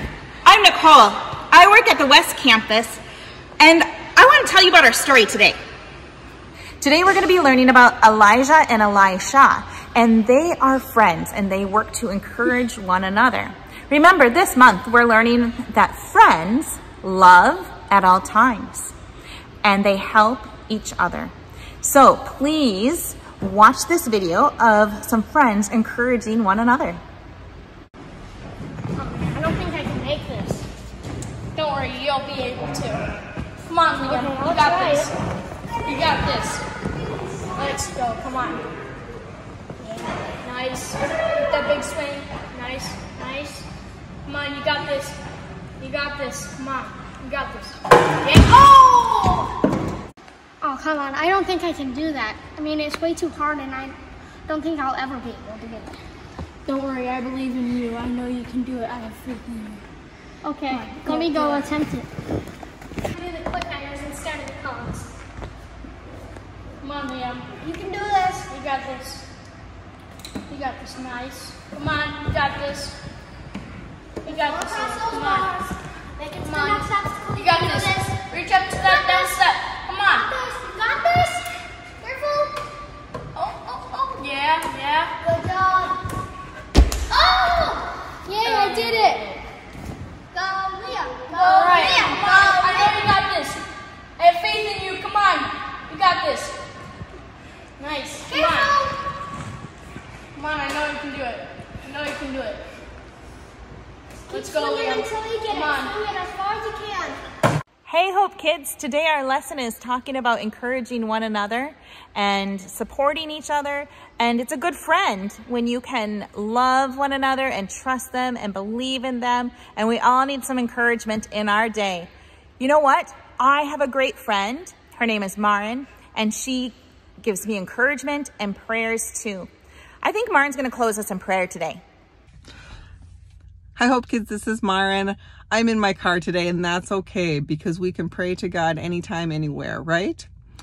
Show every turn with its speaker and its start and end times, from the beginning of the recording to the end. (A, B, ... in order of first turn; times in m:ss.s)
0:00.4-0:03.0 A
0:03.6-0:05.6 A
0:06.8-0:18.9 A
0:19.6-0:27.0 A
0:29.0-0:30.7 B
0:31.6-0:33.1 C
0:33.7-0:35.2 C
0:34.0-0:35.1 B
0:35.8-0:36.6 C
0:37.6-0:38.7 C
0:39.8-0:40.1 B
0:40.4-0:43.7 C
0:44.2-0:45.2 C
0:45.8-0:49.6 C
0:50.6-0:56.0 B
0:56.7-0:59.8 C
1:00.4-1:02.1 B
1:00.7-1:01.7 C
1:03.1-1:05.1 C
1:06.8-1:07.6 C
1:07.6-1:08.4 B
1:08.4-1:09.3 C
1:10.5-1:13.0 C
1:14.2-1:15.5 C
1:14.2-1:18.1 B
1:16.4-1:20.3 C
1:18.8-1:19.4 B
1:20.1-1:22.6 B
1:23.4-1:25.2 C
1:25.2-1:26.0 B
1:27.1-1:29.0 B
1:28.3-1:29.4 C
1:30.3-1:33.0 B
1:31.3-1:33.6 C
1:34.2-1:36.6 C
1:37.8-1:38.8 C
1:38.3-1:39.0 B
1:40.4-1:42.6 C
1:44.3-1:47.2 B
1:44.3-1:45.9 C
1:47.9-2:09.5 A
2:10.0-2:11.8 A
2:13.8-2:20.3 D